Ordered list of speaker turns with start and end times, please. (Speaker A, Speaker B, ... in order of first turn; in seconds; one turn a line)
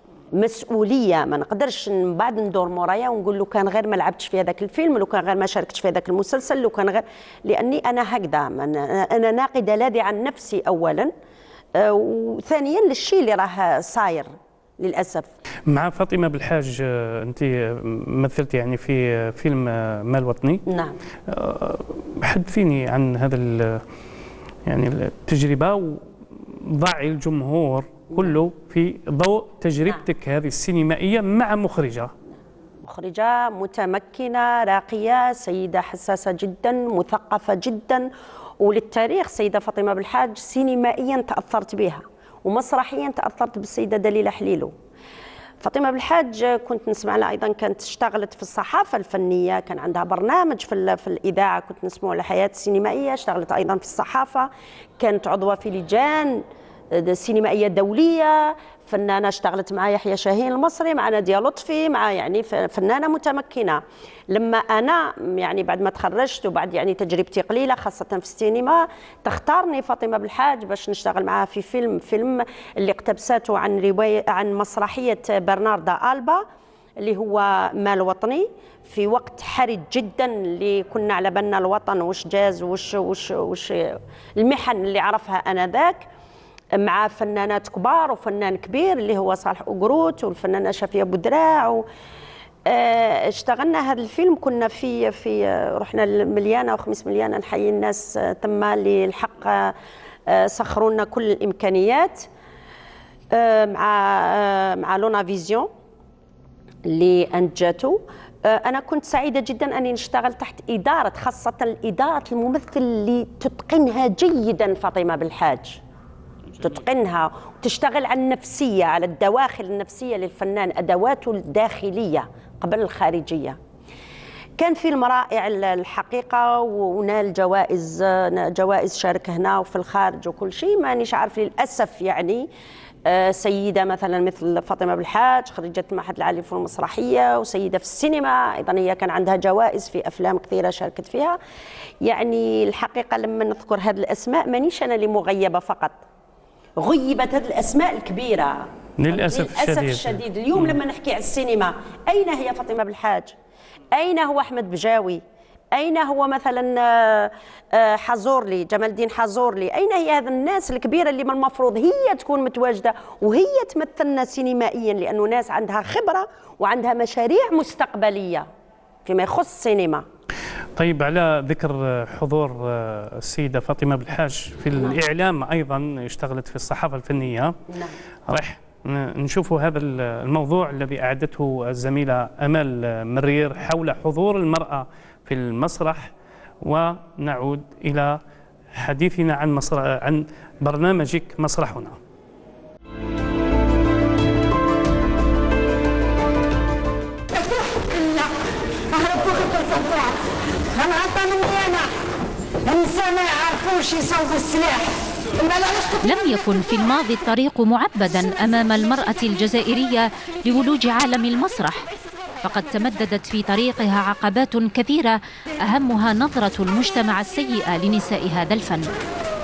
Speaker A: 0.3-11.1
Speaker A: 11.8-15.3
Speaker B: 15.7-20.6
Speaker A: 20.7-21.0
Speaker B: 21.3-23.8
Speaker B: 24.7-32.1
Speaker A: 32.8-38.1
Speaker A: 38.6-44.7
Speaker A: 45.6-76.4
Speaker A: 77.0-86.1
Speaker A: 86.8-91.8
Speaker A: 92.7-99.7
Speaker A: 100.3-102.3
Speaker A: 103.3-105.7
Speaker A: 106.9-115.8
Speaker A: 116.6-123.6
Speaker A: 124.6-132.5
Speaker A: 133.1-141.4
Speaker A: 142.0-146.0
Speaker A: 146.8-153.3
Speaker B: 149.0-150.8
Speaker A: 153.9-155.2
Speaker A: 155.7-168.5
Speaker A: 169.1-170.0
Speaker B: 170.8-177.6
Speaker A: 177.7-178.0
Speaker B: 178.3-188.2
Speaker B: 188.7-192.0
Speaker C: 197.3-198.3
Speaker C: 198.9-201.9
Speaker C: 202.7-205.9
Speaker D: 206.0-211.9
Speaker D: 212.4-218.9